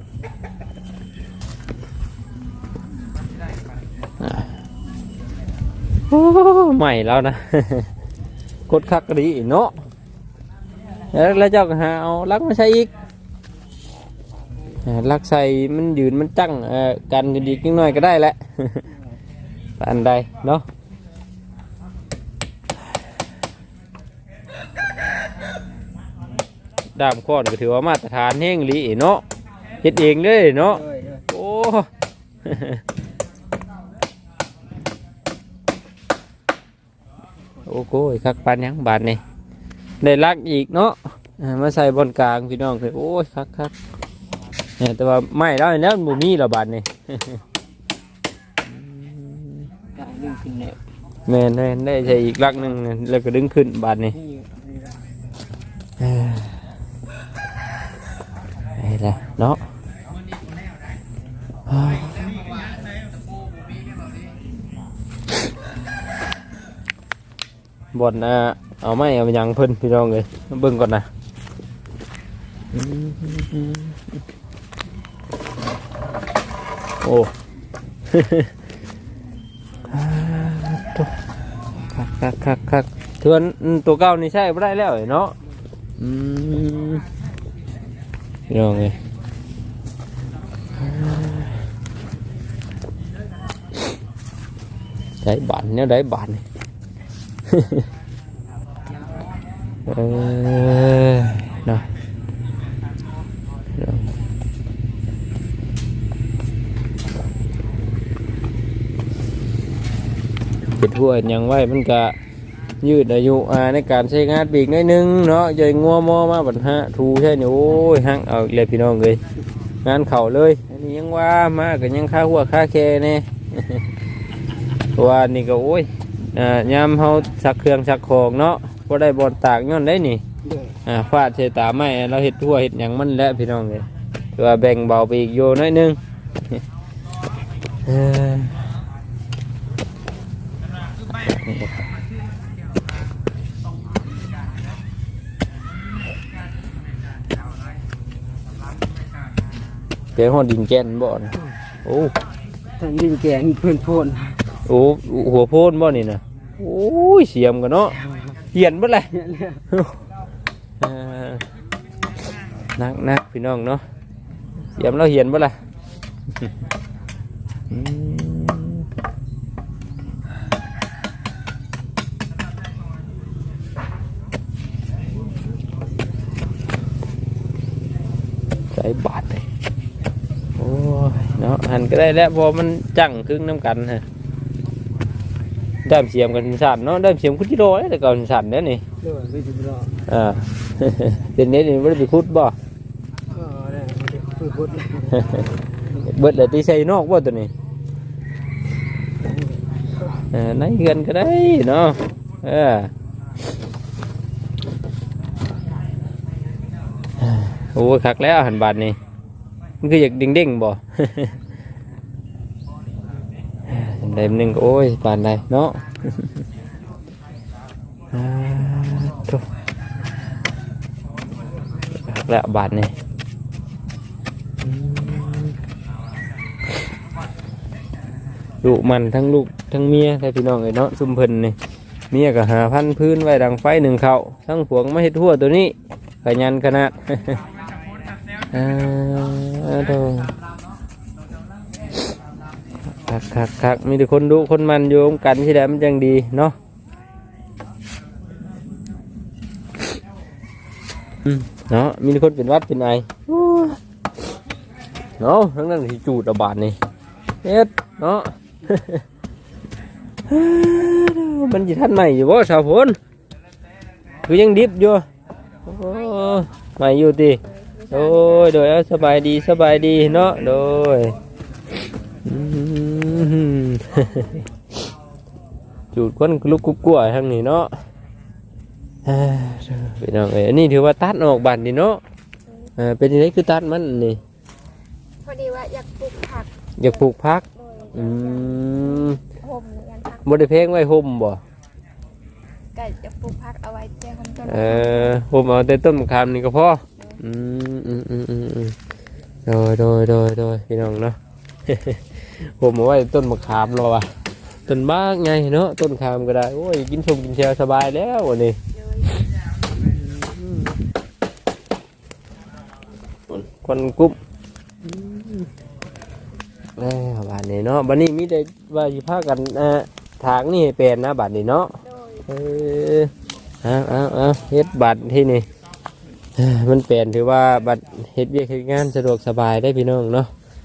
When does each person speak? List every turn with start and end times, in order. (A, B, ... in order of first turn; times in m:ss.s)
0:04.2-0:04.5 A
0:06.1-0:07.9 A
0:08.7-0:09.8 A
0:11.1-0:12.9 A
0:14.8-0:18.9 A
0:19.8-0:20.6 A
0:27.0-0:29.2 A
0:29.8-0:31.9 A
0:30.8-0:31.2 B
0:32.4-0:32.8 A
0:37.6-0:39.2 A
0:40.0-0:43.7 A
0:44.8-0:47.4 A
0:48.7-0:49.7 A
0:50.0-0:50.8 B
0:51.3-0:54.2 A
0:54.2-0:54.8 B
0:56.0-0:56.6 A
0:58.8-0:59.6 A
1:01.7-1:02.4 A
1:07.9-1:11.1 A
1:12.7-1:14.0 A
1:17.0-1:17.3 A
1:18.1-1:18.5 A
1:19.9-1:21.1 A
1:22.0-1:25.4 A
1:26.0-1:27.0 A
1:28.5-1:29.0 A
1:30.8-1:31.6 A
1:35.2-1:36.4 A
1:37.5-1:37.8 A
1:39.9-1:41.8 A
1:43.8-1:44.1 A
1:50.7-1:52.2 A
1:52.8-1:59.2 A
1:59.8-2:03.9 A
2:04.9-2:10.2 A
2:10.4-2:10.8 B
2:10.8-2:16.0 A
2:17.9-2:18.6 A
2:21.3-2:21.8 A
2:30.2-2:32.1 A
2:32.8-2:34.4 B
2:34.7-2:38.0 A
2:38.5-2:39.1 A
2:39.1-2:39.6 B
2:39.7-2:40.0 A
2:40.8-2:41.4 A
2:42.8-2:43.8 A
2:44.8-2:45.6 A
2:47.7-2:48.9 A
2:58.7-2:59.4 A
3:00.6-3:04.0 A
3:05.8-3:08.8 A
3:09.0-3:09.9 B
3:10.1-3:12.6 A
3:13.3-3:15.3 B
3:15.1-3:17.5 A
3:19.2-3:19.8 B
3:20.3-3:22.9 A
3:27.2-3:29.0 A
3:29.8-3:31.4 A
3:33.7-3:36.3 A
3:38.1-3:39.4 A
3:42.1-3:42.9 A
3:44.6-3:45.6 A
3:48.6-3:51.6 A
3:52.1-3:55.7 A
3:56.2-3:57.4 A
3:58.5-4:00.3 A
4:03.0-4:06.6 A
4:11.2-4:13.8 A
4:15.2-4:16.8 A
4:17.4-4:19.0 A
4:20.3-4:23.0 A
4:24.3-4:25.0 A
4:25.7-4:31.2 A
4:27.7-4:28.3 C
4:32.2-4:34.4 A
4:35.9-4:37.7 A
4:39.1-4:42.0 A
4:42.8-4:44.2 A
4:45.2-4:46.5 C
4:46.8-4:49.2 A
4:47.6-4:48.6 C
4:49.2-4:50.4 C
4:50.2-4:51.4 A
4:52.8-4:55.2 C
4:54.4-4:58.8 A
4:59.5-5:02.0 A
5:02.6-5:04.1 A
5:04.7-5:08.6 A
5:09.7-5:10.8 A
5:13.3-5:14.2 A
5:14.8-5:15.5 A
5:16.8-5:23.1 A
5:23.6-5:25.5 A
5:26.4-5:30.3 A